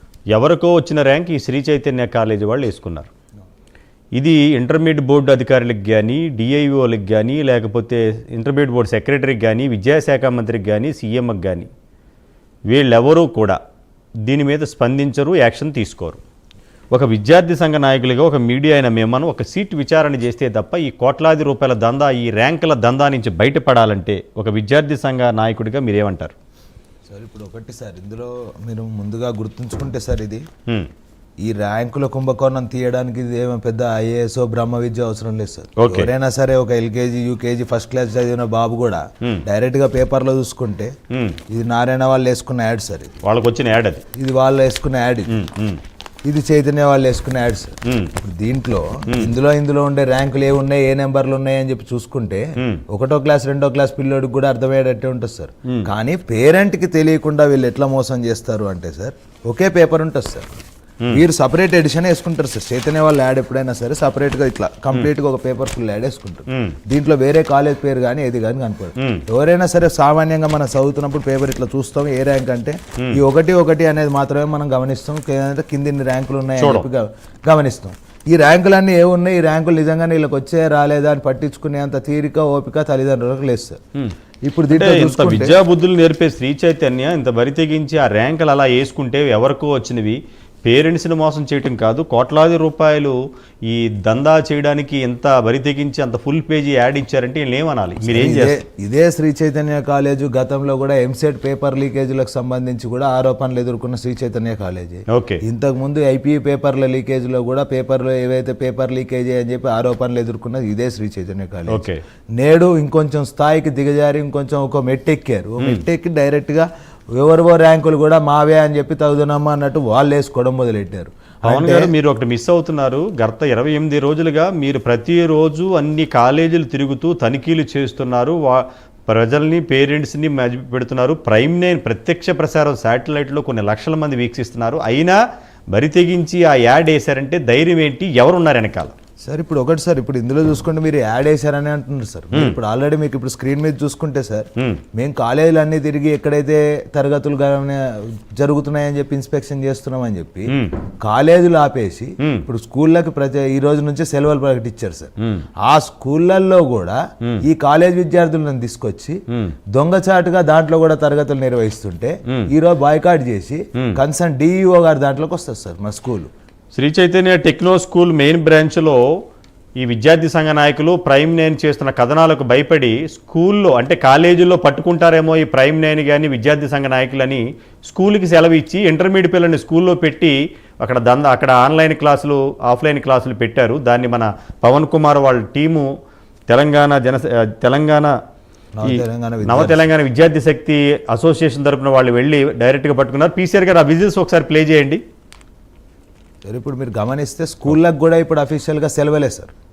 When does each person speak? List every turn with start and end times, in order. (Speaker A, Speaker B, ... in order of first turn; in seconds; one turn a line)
Speaker A: 0.3-3.1
Speaker A: 4.2-11.7
Speaker A: 12.7-13.6
Speaker A: 14.3-16.2
Speaker A: 16.9-26.3
Speaker B: 27.1-30.4
Speaker B: 31.4-40.9
Speaker A: 35.8-36.1
Speaker A: 41.1-41.4
Speaker B: 41.5-43.1
Speaker A: 43.2-44.0
Speaker B: 44.1-45.3
Speaker A: 45.3-45.8
Speaker B: 46.2-60.5
Speaker A: 47.9-48.1
Speaker B: 61.1-83.8
Speaker A: 66.5-66.8
Speaker A: 69.0-69.2
Speaker A: 76.6-76.8
Speaker B: 84.4-85.5
Speaker A: 84.7-93.1
Speaker A: 93.7-98.6
Speaker B: 98.0-116.7
Speaker A: 105.1-105.4
Speaker A: 111.7-112.0
Speaker B: 117.2-121.9
Speaker A: 121.4-135.2
Speaker A: 135.7-138.9
Speaker B: 139.2-155.1
Speaker A: 152.2-152.4
Speaker B: 155.6-159.2
Speaker B: 159.7-166.3
Speaker A: 166.7-169.0
Speaker A: 169.8-185.8
Speaker A: 186.5-188.1
Speaker B: 188.7-189.9
Speaker A: 188.8-195.0
Speaker B: 196.4-199.5